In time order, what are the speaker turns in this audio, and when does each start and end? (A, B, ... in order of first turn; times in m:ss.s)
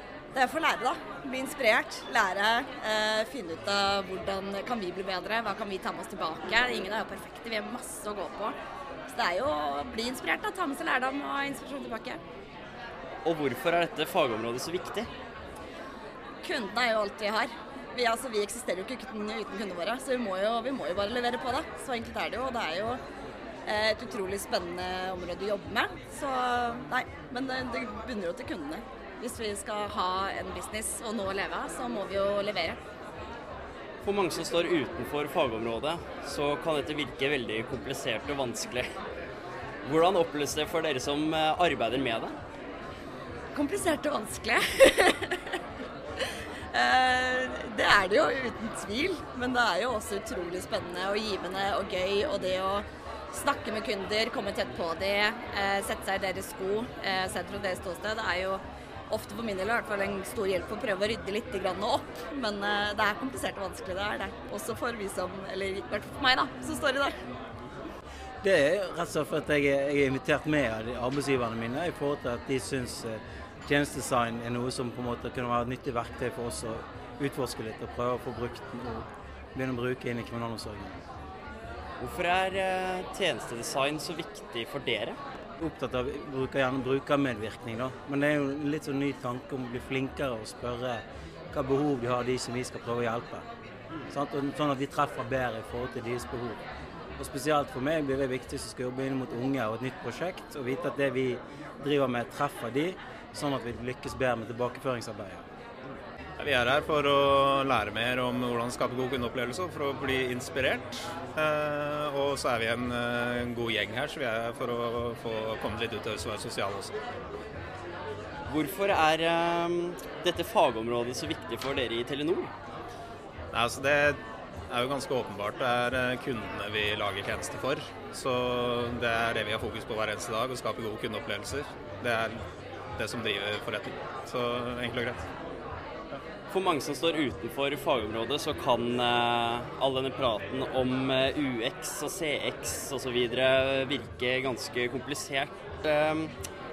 0:00.3-0:08.6 A
0:09.1-0:12.2 A
0:13.2-0:15.1 B
0:16.4-0:23.0 A
0:23.6-0:32.8 A
0:34.0-0:38.9 B
0:39.8-0:42.4 B
0:43.5-0:45.6 A
0:46.7-1:07.2 A
1:08.4-1:21.0 C
1:22.0-1:25.2 B
1:25.6-1:33.4 C
1:34.1-1:36.6 C
1:37.2-1:45.4 C
1:46.4-1:57.0 D
1:58.5-2:02.5 B
2:03.5-2:04.2 D
2:04.7-2:12.4 D
2:13.0-2:15.3 D
2:16.5-2:26.3 B